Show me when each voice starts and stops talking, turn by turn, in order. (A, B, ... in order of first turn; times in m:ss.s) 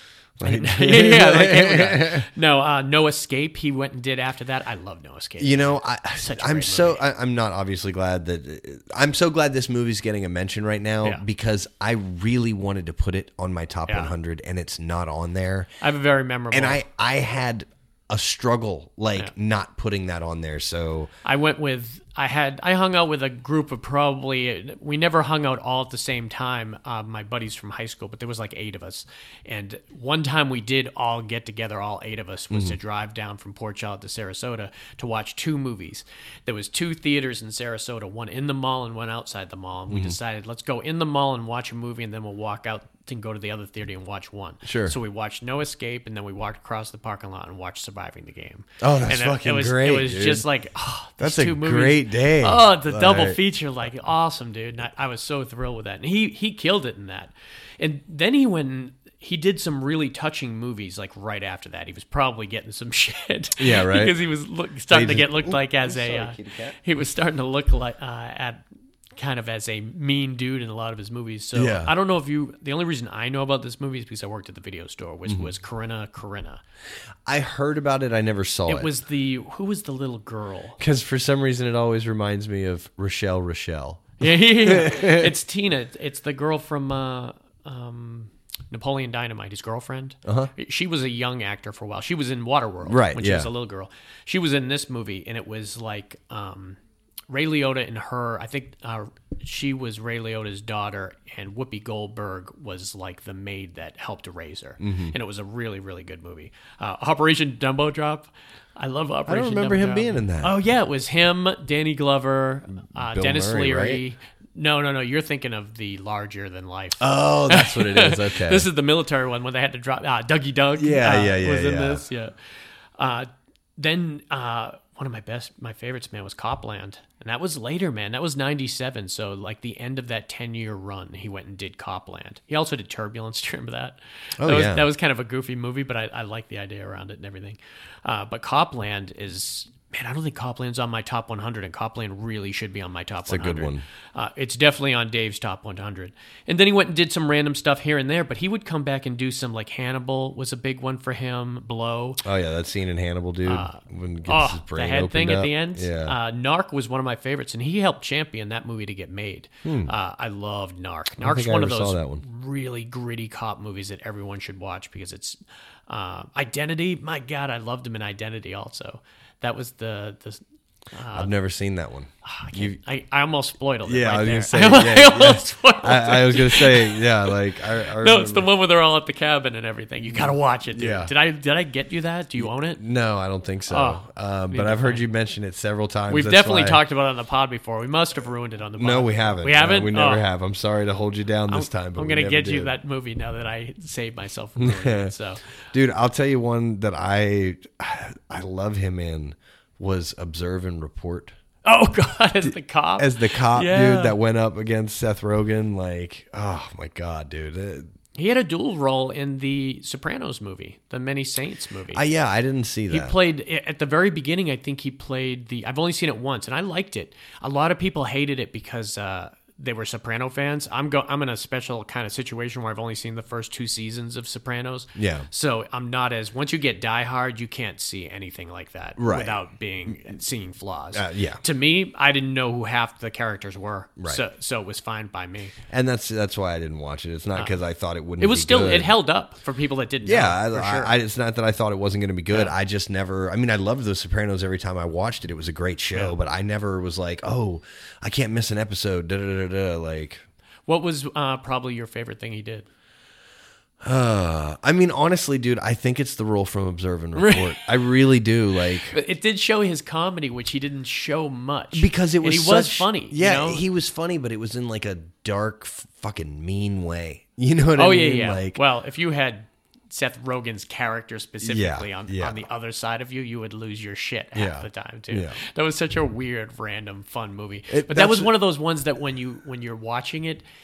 0:00.4-0:02.3 A
0:00.4-0:07.0 B
0:05.4-0:15.7 A
0:13.9-0:14.1 B
0:15.8-0:16.8 B
0:16.5-0:21.1 A
0:21.2-1:16.6 B
0:32.5-0:32.8 A
0:39.9-0:40.2 A
0:44.6-0:45.0 A
0:48.8-0:50.5 A
0:51.2-0:53.4 A
1:03.6-1:04.2 A
1:04.9-1:06.8 A
1:11.5-1:11.9 A
1:15.3-1:15.5 A
1:17.3-1:18.9 A
1:18.7-1:20.8 B
1:20.8-1:25.4 A
1:24.2-2:02.3 B
1:30.2-1:30.5 A
1:32.8-1:33.5 A
1:44.8-1:45.2 A
1:49.3-1:50.5 A
1:53.0-1:54.0 A
1:57.0-1:58.7 A
2:00.8-2:02.1 A
2:03.0-2:32.2 B
2:14.4-2:14.8 A
2:23.2-2:23.8 A
2:32.2-2:36.2 A
2:33.4-2:51.3 B
2:39.6-2:39.9 A
2:41.2-2:42.2 A
2:51.1-2:52.8 A
2:52.2-3:02.8 B
2:53.8-2:58.5 A
3:00.0-3:01.1 A
3:02.4-3:06.8 A
3:03.7-3:05.0 B
3:06.1-3:10.2 B
3:08.8-3:12.8 A
3:11.5-3:15.4 B
3:14.6-3:15.1 A
3:15.7-3:21.3 A
3:21.6-3:24.2 B
3:22.4-3:27.9 A
3:28.2-3:32.0 B
3:31.9-3:33.2 A
3:32.9-3:55.5 B
3:45.0-3:45.3 A
3:49.0-3:49.4 A
3:50.9-3:51.4 A
3:55.7-3:58.9 A
3:57.4-3:57.6 B
3:58.2-4:01.0 B
4:00.0-4:10.2 A
4:02.3-4:02.6 B
4:05.9-4:06.2 B
4:10.7-4:12.7 B
4:13.8-4:19.0 A
4:17.2-4:17.8 B
4:18.7-4:23.6 B
4:21.7-4:28.6 A
4:27.8-4:40.4 B
4:31.4-4:32.4 A
4:34.3-4:35.4 A
4:37.7-4:38.4 A